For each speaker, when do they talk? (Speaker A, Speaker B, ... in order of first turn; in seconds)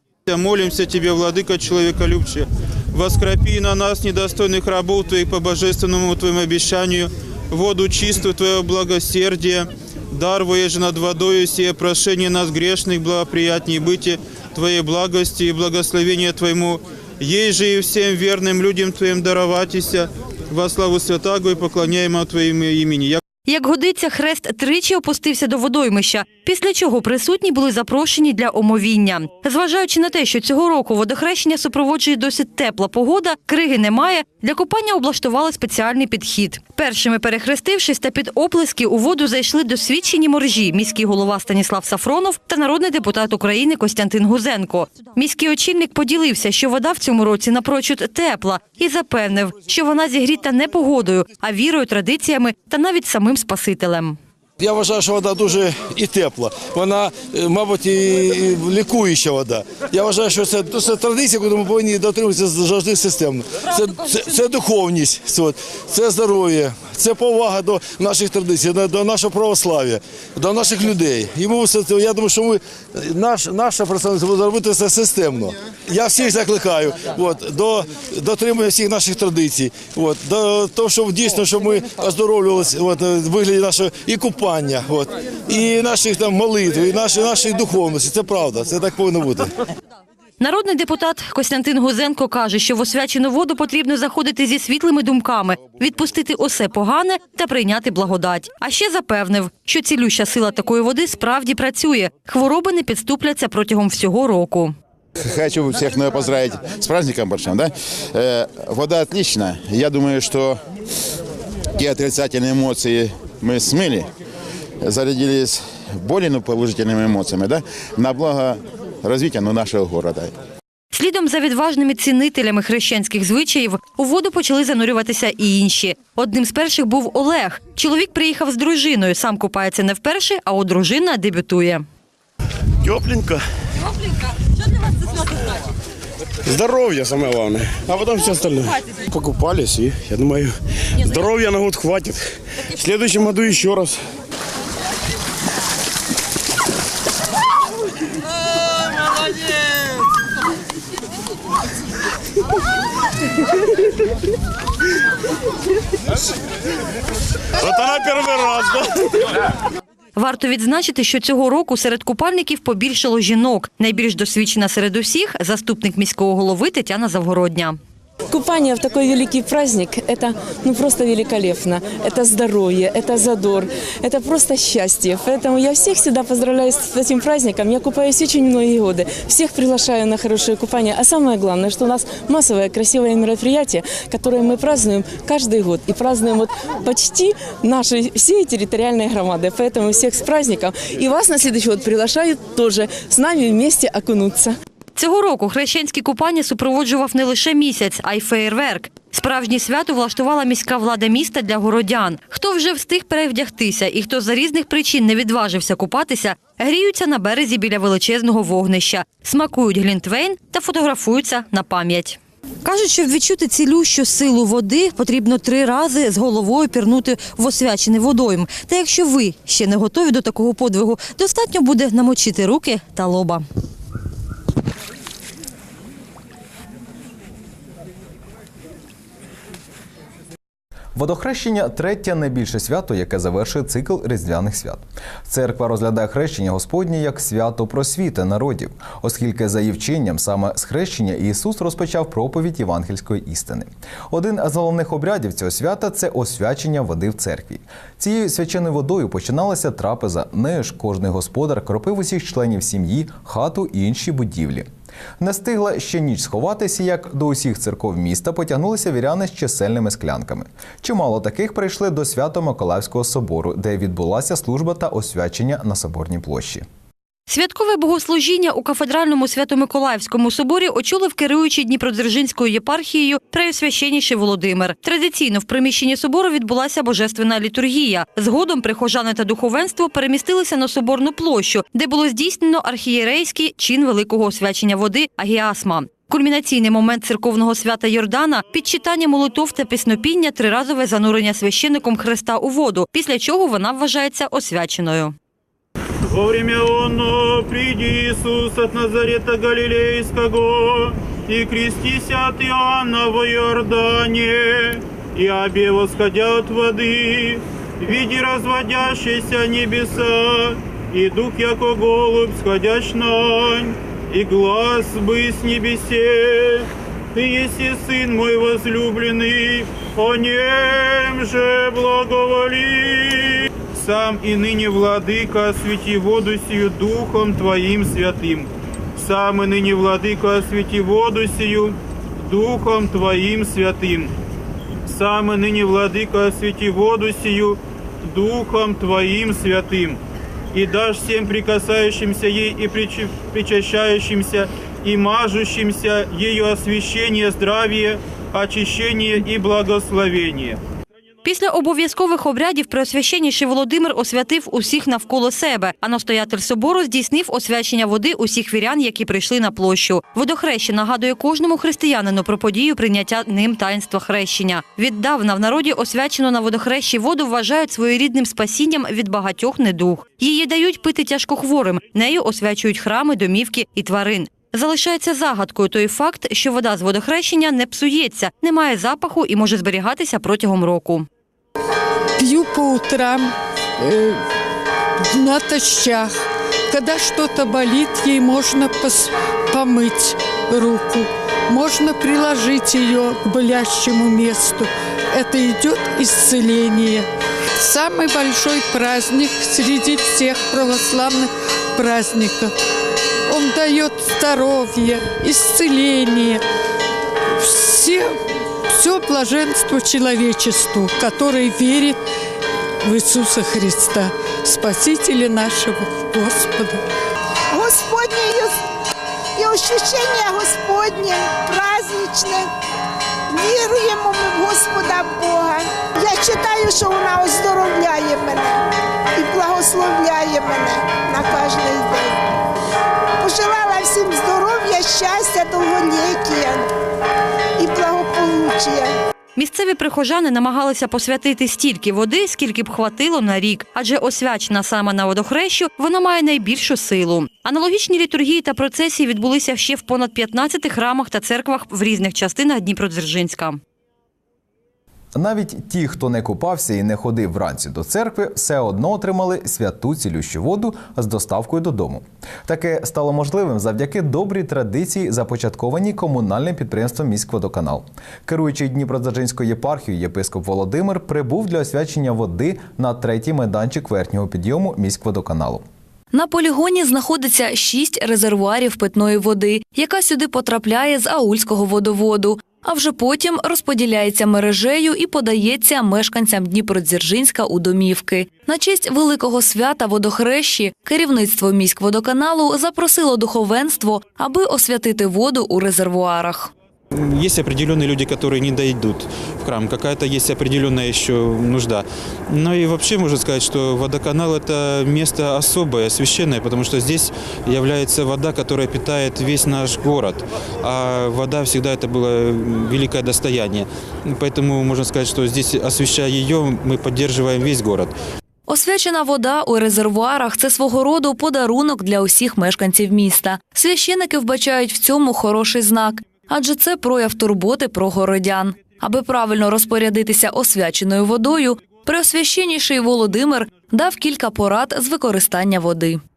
Speaker A: 0.3-23.2, 296.1-334.1, 334.9-340.0, 340.5-350.6
Speaker B: 23.5-54.2, 90.4-104.7, 120.9-131.8, 160.2-167.8, 194.9-223.4, 267.3-295.1, 351.2-381.1, 439.4-453.6
Speaker C: 54.6-89.5, 157.6-158.8
Speaker D: 105.2-110.6, 111.7-114.1, 114.8-120.3
Speaker E: 132.8-133.4, 136.4-144.0
Speaker F: 168.3-194.5
Speaker G: 230.9-266.6, 455.1-475.6
Speaker H: 382.2-384.2, 385.1-386.2, 386.7-402.5, 403.3-406.4, 407.4-412.0, 412.8-416.8
Speaker I: 417.5-418.6, 419.4-422.5, 423.3-428.6, 429.1-432.2, 433.2-436.6, 437.6-438.9
Speaker J: 476.1-496.5, 518.5-536.0
Speaker K: 496.9-517.9